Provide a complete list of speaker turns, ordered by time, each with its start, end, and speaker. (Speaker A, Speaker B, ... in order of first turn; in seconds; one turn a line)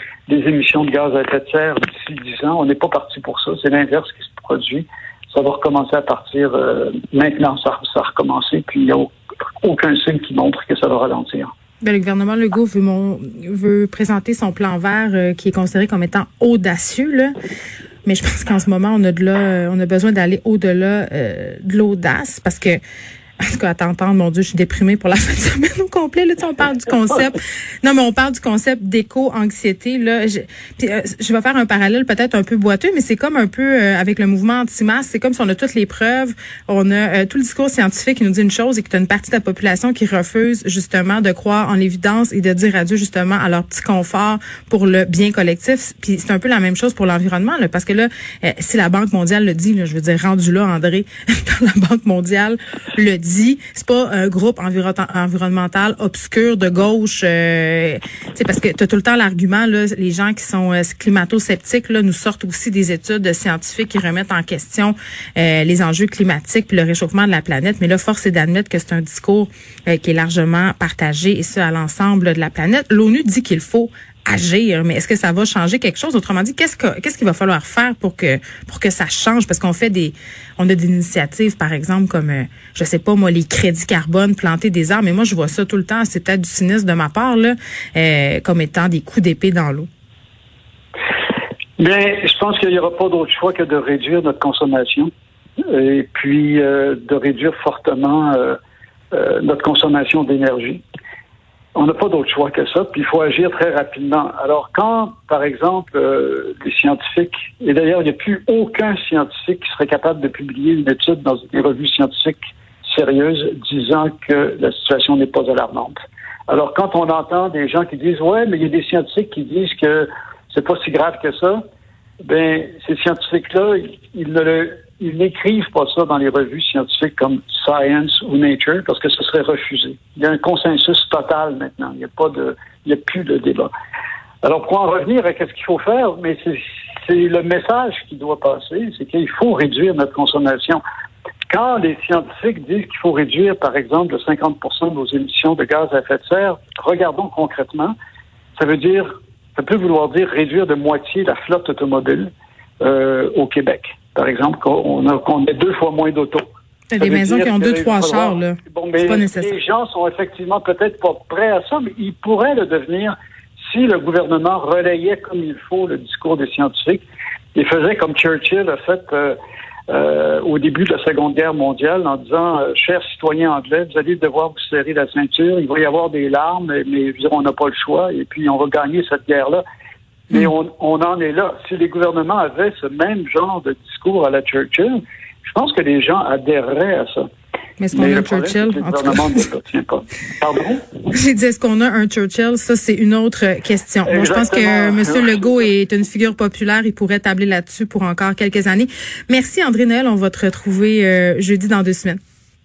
Speaker A: 0.3-11.5
Speaker B: 11.8-17.3
Speaker B: 18.1-22.8
Speaker B: 23.4-89.9
Speaker A: 91.8-95.1
Speaker A: 95.7-98.6
Speaker A: 99.1-100.8
Speaker A: 101.8-116.0
Speaker A: 116.5-121.6
Speaker A: 122.2-133.7
Speaker A: 134.4-140.8
Speaker A: 141.5-147.9
Speaker A: 148.6-152.3
Speaker A: 152.8-156.4
Speaker B: 156.9-159.5
Speaker A: 157.0-167.0
Speaker A: 167.6-169.4
Speaker A: 169.9-179.6
Speaker A: 180.3-187.3
Speaker B: 187.8-189.4
Speaker A: 187.9-190.8
Speaker B: 191.1-202.2
Speaker A: 194.1-195.7